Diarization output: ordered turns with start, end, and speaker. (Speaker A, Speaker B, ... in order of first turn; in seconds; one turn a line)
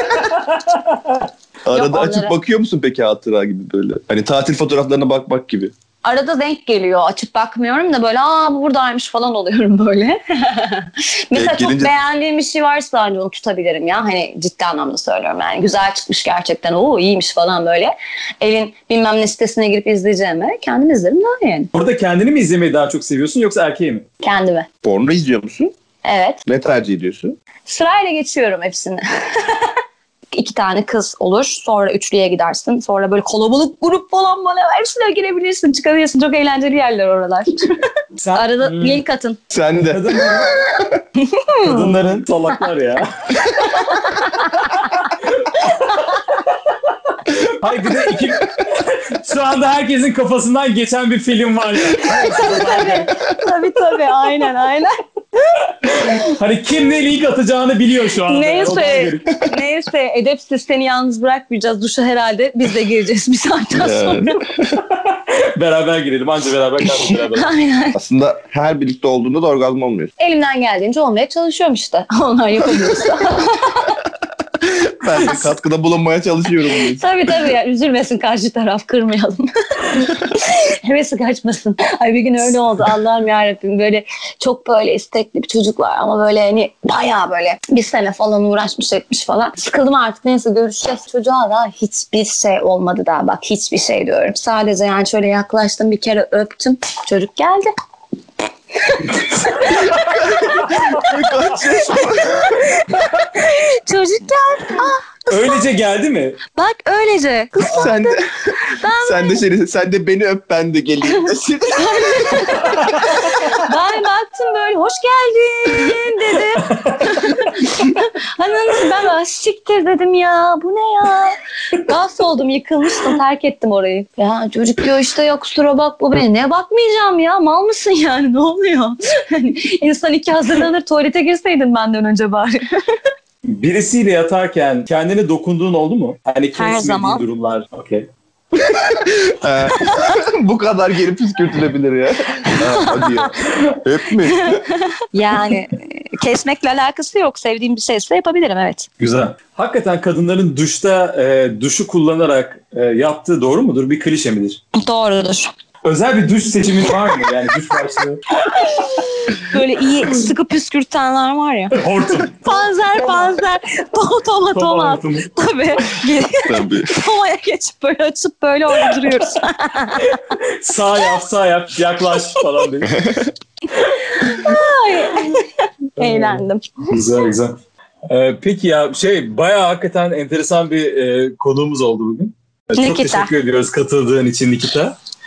Speaker A: 0.2-1.2
Speaker B: 1.6-5.7
Speaker C: 1.7-2.4
Speaker C: 6.0-21.7
Speaker B: 11.3-11.9
Speaker A: 21.7-24.1
Speaker C: 24.2-24.7
Speaker B: 24.8-25.7
Speaker C: 26.1-26.4
Speaker B: 26.5-27.4
Speaker C: 27.7-29.7
Speaker C: 30.3-39.4
Speaker A: 38.2-39.0
Speaker B: 39.5-41.0
Speaker A: 39.8-40.5
Speaker C: 41.2-42.0
Speaker A: 41.6-43.6
Speaker C: 43.5-45.1
Speaker A: 45.4-46.2
Speaker C: 45.6-46.2
Speaker A: 47.4-53.1
Speaker C: 52.0-54.9
Speaker A: 55.8-59.3
Speaker C: 58.3-64.4
Speaker B: 63.8-64.8
Speaker A: 65.1-67.5
Speaker C: 67.3-68.0
Speaker B: 68.0-70.1
Speaker C: 70.2-74.0
Speaker B: 74.6-77.0
Speaker C: 76.9-97.7
Speaker C: 98.8-101.0
Speaker B: 100.0-102.6
Speaker C: 101.8-105.6
Speaker A: 105.3-106.4
Speaker C: 106.5-109.4
Speaker B: 107.6-112.8
Speaker C: 111.7-133.0
Speaker A: 116.6-117.2
Speaker A: 133.4-138.1
Speaker C: 136.6-137.2
Speaker B: 138.5-144.6
Speaker C: 139.9-140.1
Speaker C: 142.5-143.3
Speaker C: 144.2-148.9
Speaker A: 149.0-154.6
Speaker C: 154.7-155.5
Speaker A: 155.8-158.2
Speaker C: 158.5-170.4
Speaker A: 161.7-162.4
Speaker A: 164.5-165.3
Speaker B: 166.4-166.9
Speaker A: 170.0-173.0
Speaker B: 172.9-173.3
Speaker C: 173.8-177.0
Speaker A: 176.0-177.6
Speaker A: 178.1-184.9
Speaker C: 182.8-183.3